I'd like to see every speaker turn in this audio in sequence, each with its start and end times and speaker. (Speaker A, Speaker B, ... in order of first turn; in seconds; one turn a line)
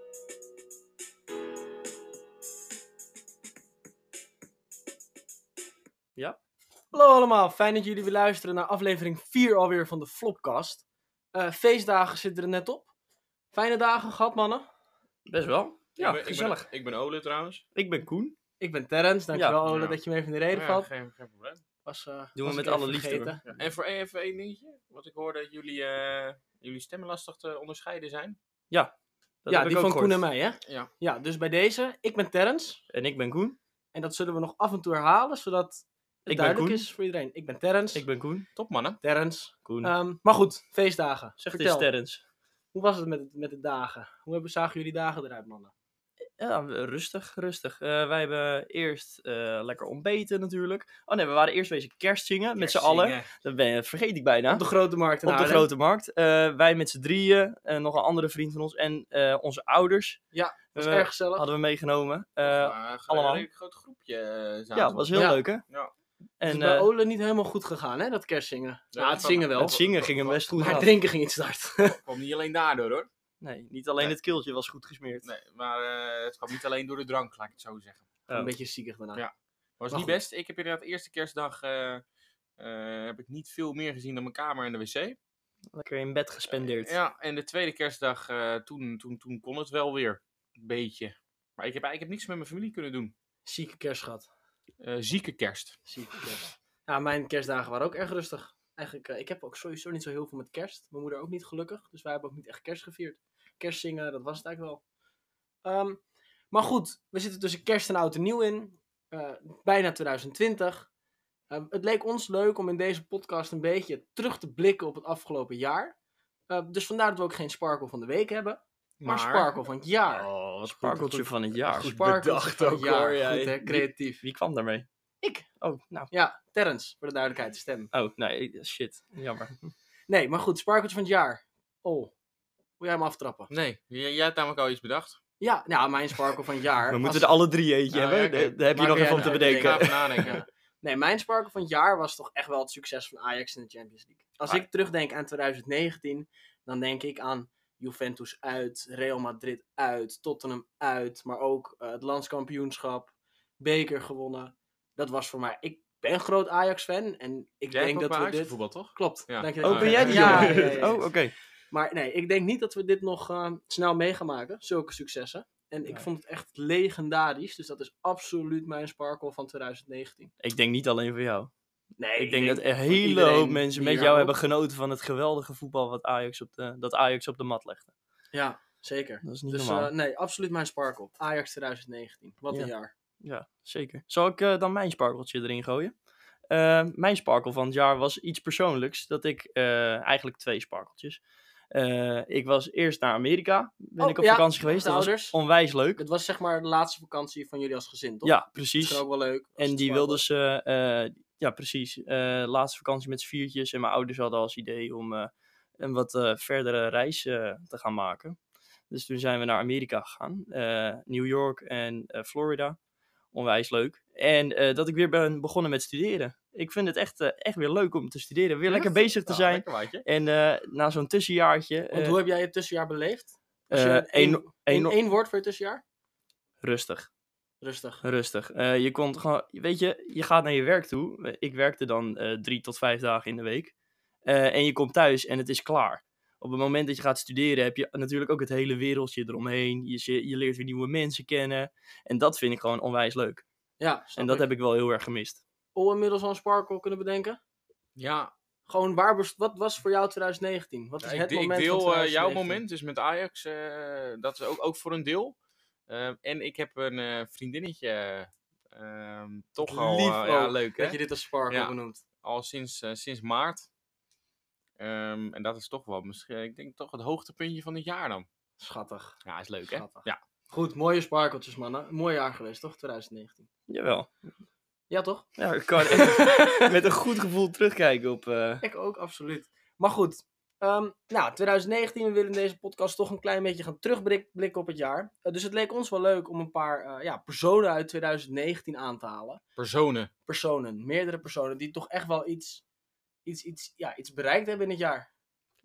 Speaker A: 6.9-12.9
Speaker A: 13.5-14.7
Speaker B: 15.2-16.6
Speaker C: 16.0-17.6
Speaker B: 17.7-18.3
Speaker A: 18.6-20.9
Speaker B: 19.3-19.6
Speaker C: 19.6-20.0
Speaker C: 20.5-21.6
Speaker A: 21.8-23.4
Speaker B: 22.3-23.4
Speaker C: 23.4-28.4
Speaker B: 28.7-30.2
Speaker A: 29.5-32.8
Speaker B: 32.9-33.6
Speaker A: 33.9-38.0
Speaker B: 36.3-36.9
Speaker B: 37.9-38.5
Speaker C: 38.5-39.0
Speaker A: 39.0-41.9
Speaker B: 39.6-39.9
Speaker B: 41.5-42.2
Speaker A: 42.7-45.7
Speaker B: 46.4-54.6
Speaker C: 52.6-53.3
Speaker A: 54.5-55.7
Speaker B: 55.2-60.2
Speaker A: 60.3-61.5
Speaker B: 60.8-63.5
Speaker C: 62.4-65.1
Speaker B: 64.7-65.6
Speaker A: 65.1-65.4
Speaker B: 66.4-66.9
Speaker A: 66.4-69.8
Speaker C: 68.9-70.8
Speaker B: 69.5-70.9
Speaker A: 70.6-72.0
Speaker C: 71.8-73.1
Speaker B: 73.4-75.2
Speaker C: 75.2-78.1
Speaker A: 78.3-79.2
Speaker C: 79.1-82.0
Speaker C: 82.6-85.2
Speaker B: 85.7-87.0
Speaker C: 86.6-93.1
Speaker A: 93.5-94.3
Speaker C: 94.8-95.8
Speaker A: 95.8-104.8
Speaker A: 105.6-106.0
Speaker A: 106.5-110.9
Speaker A: 111.5-115.9
Speaker A: 116.5-120.3
Speaker C: 119.0-119.5
Speaker B: 120.3-124.9
Speaker C: 120.3-121.2
Speaker A: 120.8-124.2
Speaker C: 121.7-122.9
Speaker B: 125.6-126.1
Speaker A: 126.1-127.9
Speaker B: 127.9-129.6
Speaker A: 130.1-132.1
Speaker A: 132.8-133.5
Speaker C: 133.5-135.2
Speaker A: 135.4-137.3
Speaker B: 136.9-140.3
Speaker A: 137.9-161.1
Speaker C: 138.1-140.4
Speaker C: 157.7-160.9
Speaker B: 159.6-161.3
Speaker A: 161.7-170.3
Speaker B: 170.4-171.5
Speaker A: 172.0-174.3
Speaker B: 172.2-177.9
Speaker A: 178.3-182.9
Speaker B: 179.2-179.9
Speaker B: 183.2-185.9
Speaker B: 186.5-196.0
Speaker A: 194.0-195.4
Speaker A: 195.9-200.2
Speaker B: 198.2-199.0
Speaker B: 199.6-208.4
Speaker B: 208.9-212.8
Speaker B: 213.3-222.2
Speaker C: 218.7-220.0
Speaker A: 221.9-225.8
Speaker B: 223.7-225.0
Speaker B: 226.6-227.1
Speaker A: 227.6-228.0
Speaker B: 228.0-233.7
Speaker B: 234.2-243.4
Speaker A: 243.8-244.4
Speaker B: 244.2-245.4
Speaker A: 245.7-247.4
Speaker C: 247.9-248.3
Speaker A: 248.7-252.6
Speaker C: 251.0-255.3
Speaker C: 255.9-263.7
Speaker A: 259.6-262.0
Speaker C: 264.8-268.2
Speaker A: 268.6-269.2
Speaker C: 269.2-270.2
Speaker A: 269.7-273.5
Speaker B: 273.7-274.1
Speaker A: 274.9-276.7
Speaker B: 275.4-278.6
Speaker A: 278.6-289.4
Speaker C: 289.6-290.1
Speaker A: 290.3-292.6
Speaker A: 293.2-295.1